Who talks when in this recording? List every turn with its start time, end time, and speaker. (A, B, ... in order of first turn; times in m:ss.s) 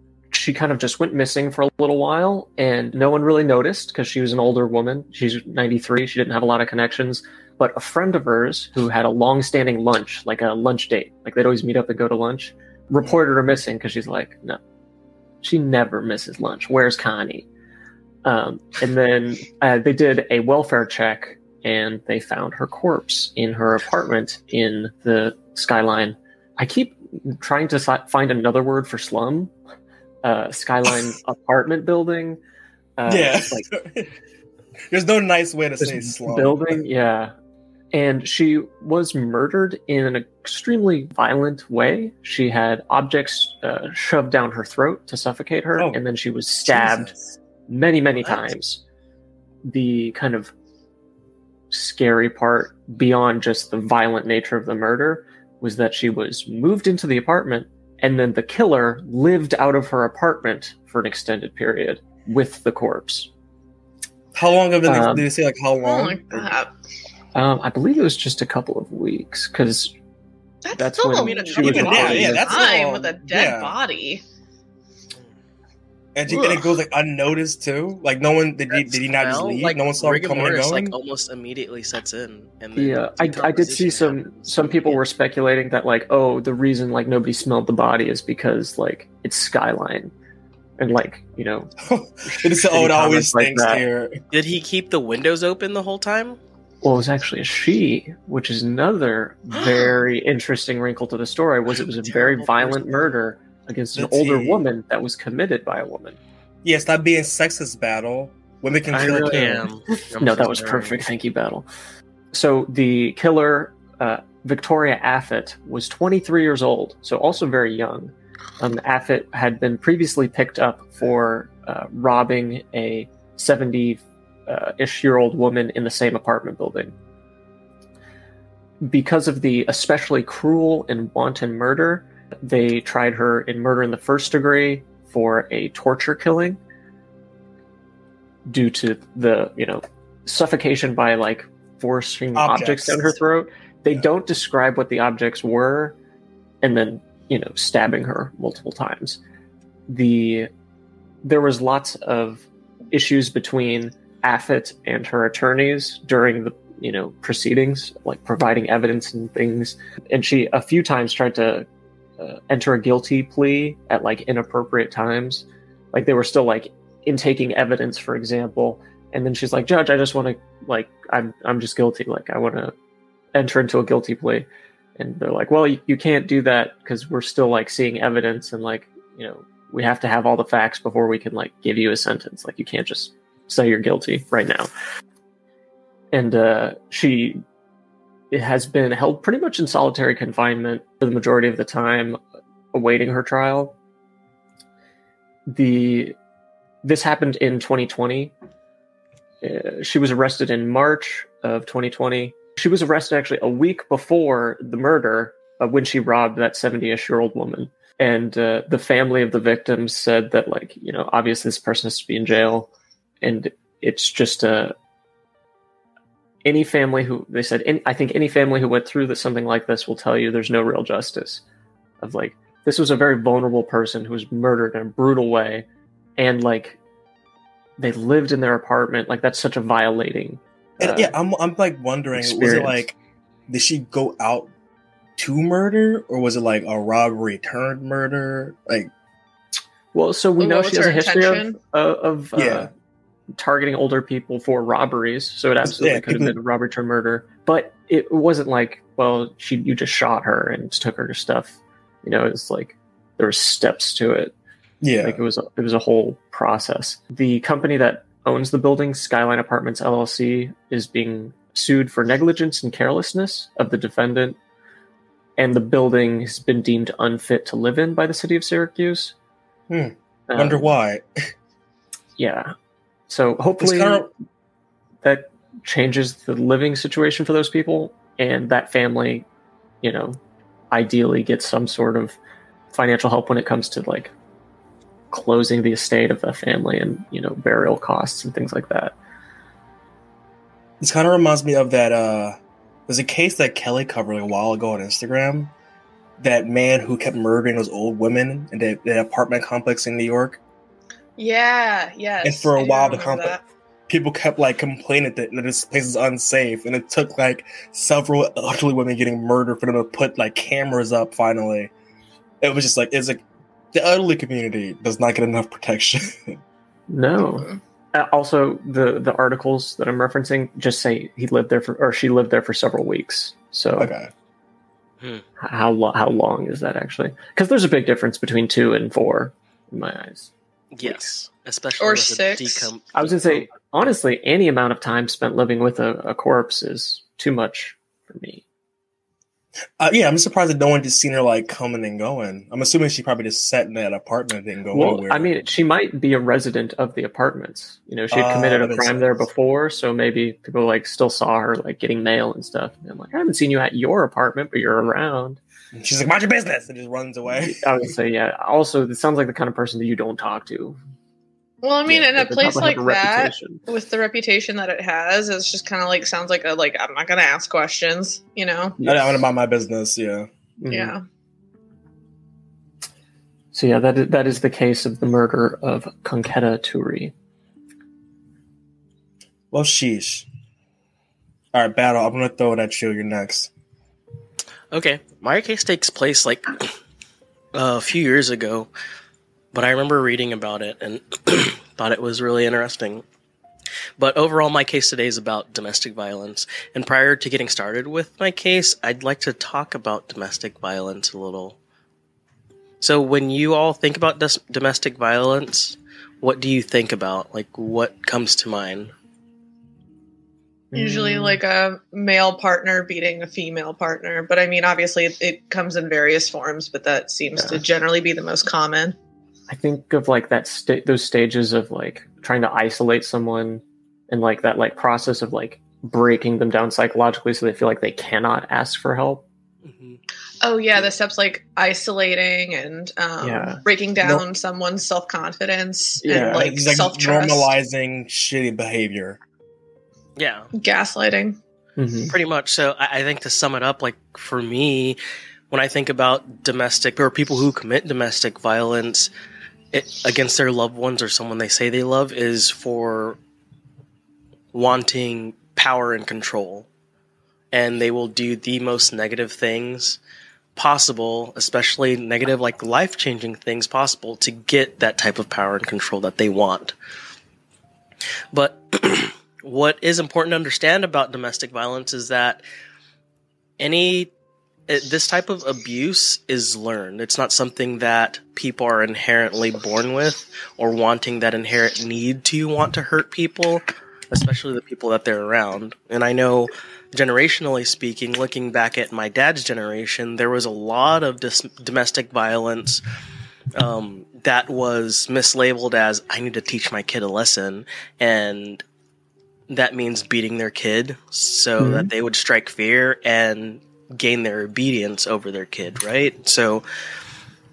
0:00.3-0:14.6 A
0:15.4-0:17.5 A
0:18.2-0:29.5 A
0:30.2-0:32.4 A
0:33.0-0:33.7 A
0:33.1-0:34.1 B
0:34.9-0:36.8 B
0:35.8-0:37.3 A
0:37.9-0:47.1 A
0:45.8-0:46.0 B
0:46.7-0:47.3 B
0:47.7-0:48.8 A
0:49.6-0:50.5 A
0:51.7-1:03.3 A
1:04.3-1:06.6 B
1:04.9-1:05.3 A
1:05.8-1:06.7 C
1:07.4-1:09.9 A
1:10.6-1:14.2 C
1:10.8-1:12.4 A
1:11.2-1:12.8 D
1:11.6-1:13.8 B
1:16.2-1:21.0 B
1:16.3-1:16.7 C
1:18.7-1:25.0 D
1:22.8-1:30.1 A
1:30.8-1:31.7 A
1:31.8-1:34.2 B
1:32.3-1:33.8 A
1:34.3-1:36.4 D
1:36.8-1:46.2 A
1:42.0-1:43.1 D
1:44.0-1:44.6 B
1:46.6-1:49.6 B
1:48.9-1:51.7 A
1:49.0-1:51.0 D
1:52.3-2:06.9 A
2:08.8-2:16.6 A
2:18.5-2:26.0 A
2:22.4-2:23.1 B
2:26.6-2:29.2 A
2:29.9-2:30.5 A
2:31.2-2:41.7 A
2:42.2-2:52.7 A
2:53.3-3:04.7 A
3:06.1-3:07.4 A
3:08.3-3:12.2 A
3:12.7-3:13.8 A
3:15.5-3:16.2 A
3:16.8-3:18.3 A
3:19.4-3:32.7 A
3:33.2-3:34.8 A
3:36.4-3:41.4 A
3:42.0-3:45.7 A
3:46.2-3:46.8 A
3:47.8-3:51.1 A
3:50.8-3:53.0 B
3:52.2-3:52.8 A
3:53.5-3:54.5 B
3:55.2-3:58.9 B
3:59.9-4:02.7 A
4:00.4-4:01.6 C
4:02.4-4:02.7 B
4:03.4-4:14.3 A
4:05.6-4:06.3 B
4:14.8-4:15.2 B
4:15.0-4:24.4 A
4:25.4-4:29.2 A
4:29.7-4:31.3 B
4:30.3-4:30.7 A
4:32.2-4:32.5 A
4:33.1-4:34.1 A
4:33.6-4:34.1 B
4:35.0-4:39.3 A
4:39.8-4:40.2 A
4:40.7-4:42.2 A
4:42.7-4:44.1 A
4:45.1-4:49.0 A
4:50.8-4:55.5 B
4:56.2-5:00.4 B
5:01.2-5:03.4 C
5:02.2-5:03.4 B
5:03.9-5:11.7 B
5:12.4-5:16.4 B
5:16.9-5:23.9 A
5:23.8-5:24.1 B
5:25.4-5:30.3 A
5:30.7-5:33.9 D
5:30.8-5:31.1 A
5:31.8-5:32.7 C
5:33.0-5:38.4 A
5:39.8-5:45.3 B
5:44.7-5:55.4 A
5:48.1-5:49.2 B
5:55.7-5:57.7 B
5:57.4-6:00.8 A
6:01.6-6:08.8 C
6:01.9-6:03.6 A
6:08.8-6:09.2 A
6:08.8-6:10.3 B
6:10.6-6:11.0 A
6:10.7-6:11.0 C
6:13.5-6:17.1 A
6:19.5-6:20.3 B
6:21.5-6:23.5 B
6:24.7-6:26.7 D
6:27.5-6:28.7 D
6:29.5-6:33.0 D
6:34.0-6:41.6 D
6:42.8-6:48.9 D
6:50.7-6:51.4 A
6:50.8-6:59.0 C
6:59.5-7:09.2 A
7:09.6-7:10.0 D
7:10.4-7:17.5 C
7:13.2-7:13.6 A
7:16.0-7:16.4 A
7:16.1-7:19.2 B
7:20.2-7:20.5 D
7:20.6-7:21.4 C
7:21.8-7:22.1 A
7:22.1-7:25.0 D
7:25.5-7:29.1 D
7:29.7-7:33.2 D
7:34.5-7:36.7 D
7:37.5-7:40.0 D
7:40.6-7:46.8 D
7:48.3-7:52.4 D
7:53.6-7:54.1 D
7:54.7-8:12.8 D
8:13.5-8:18.6 D
8:19.5-8:26.6 D
8:21.6-8:21.9 A